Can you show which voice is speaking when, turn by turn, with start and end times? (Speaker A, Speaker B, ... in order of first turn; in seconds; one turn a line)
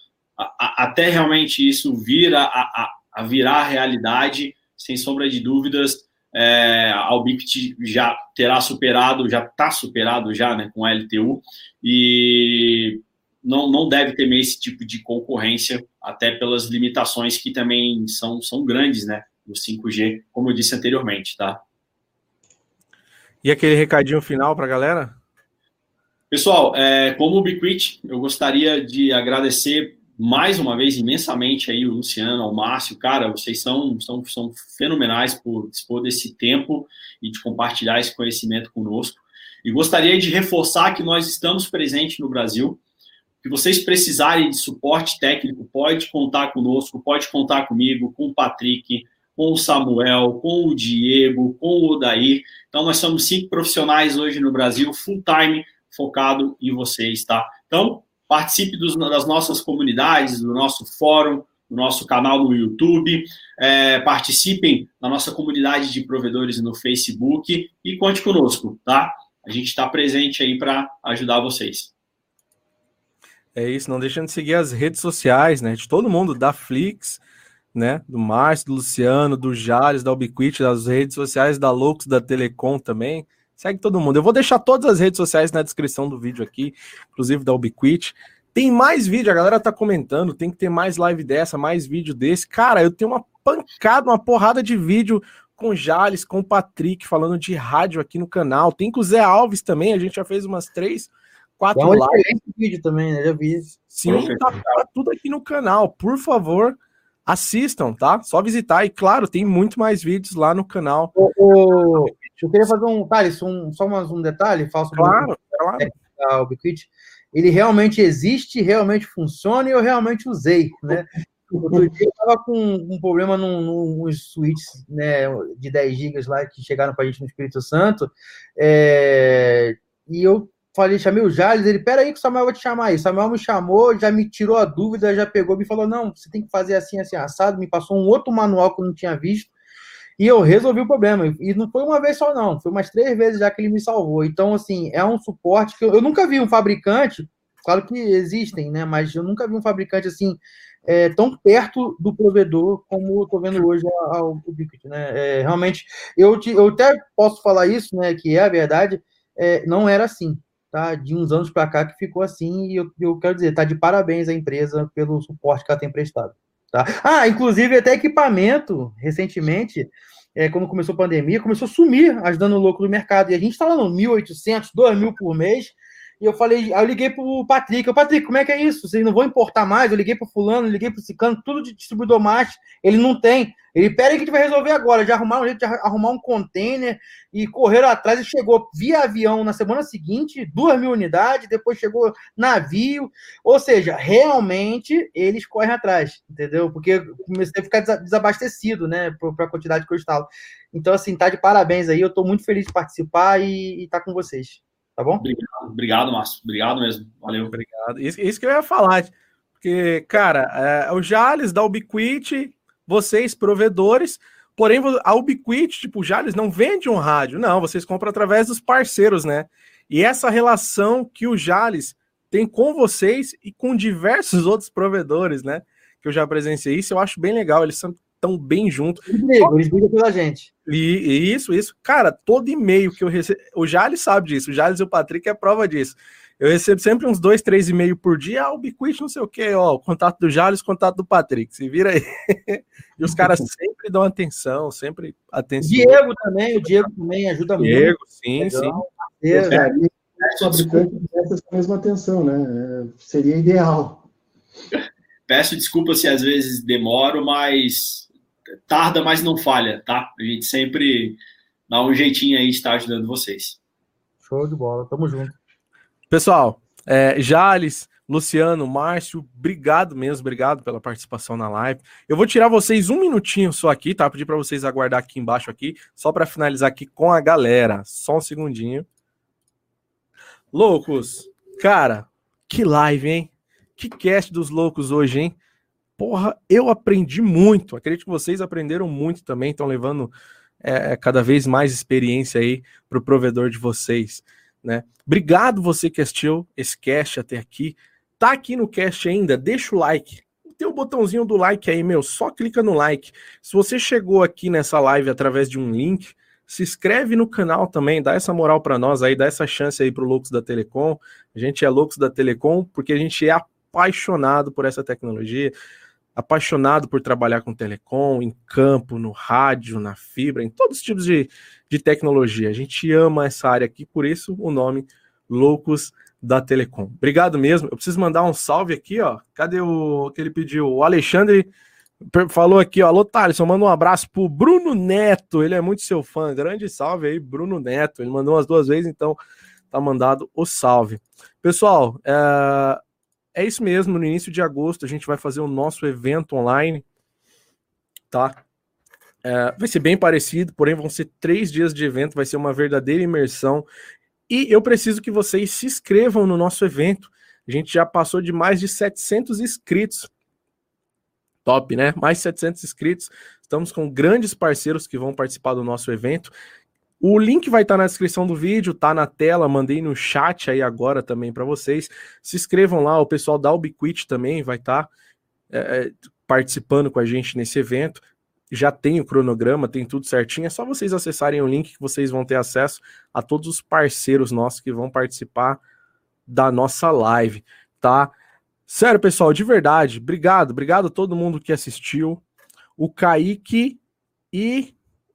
Speaker A: 0.4-21.6
Speaker B: 23.4-25.1
Speaker A: 26.3-42.8
Speaker A: 43.4-71.9
Speaker B: 73.5-77.2
Speaker B: 77.7-102.2
Speaker C: 101.7-103.7
Speaker B: 103.9-106.8
Speaker A: 104.0-104.8
Speaker B: 107.3-111.1
Speaker C: 111.2-139.5
Speaker B: 114.9-115.9
Speaker C: 140.2-205.2
Speaker A: 205.2-207.5
Speaker B: 207.5-229.5
Speaker C: 229.0-230.5
Speaker B: 230.7-246.0
Speaker C: 245.6-249.6
Speaker B: 247.6-248.8
Speaker D: 249.3-254.1
Speaker A: 249.4-250.9
Speaker A: 255.3-258.1
Speaker A: 258.7-263.6
Speaker C: 264.2-265.4
Speaker B: 266.1-278.9
Speaker B: 280.5-285.4
Speaker B: 286.0-315.5
Speaker B: 316.1-331.5
Speaker B: 332.0-339.2
Speaker B: 339.7-342.8
Speaker B: 343.3-346.8
Speaker B: 348.1-348.4
Speaker B: 349.2-353.6
Speaker B: 354.3-360.1
Speaker B: 361.4-366.3
Speaker B: 367.0-374.9
Speaker B: 375.5-385.6
Speaker B: 386.3-388.1
Speaker B: 388.7-392.2
Speaker B: 392.8-393.8
Speaker B: 394.3-394.7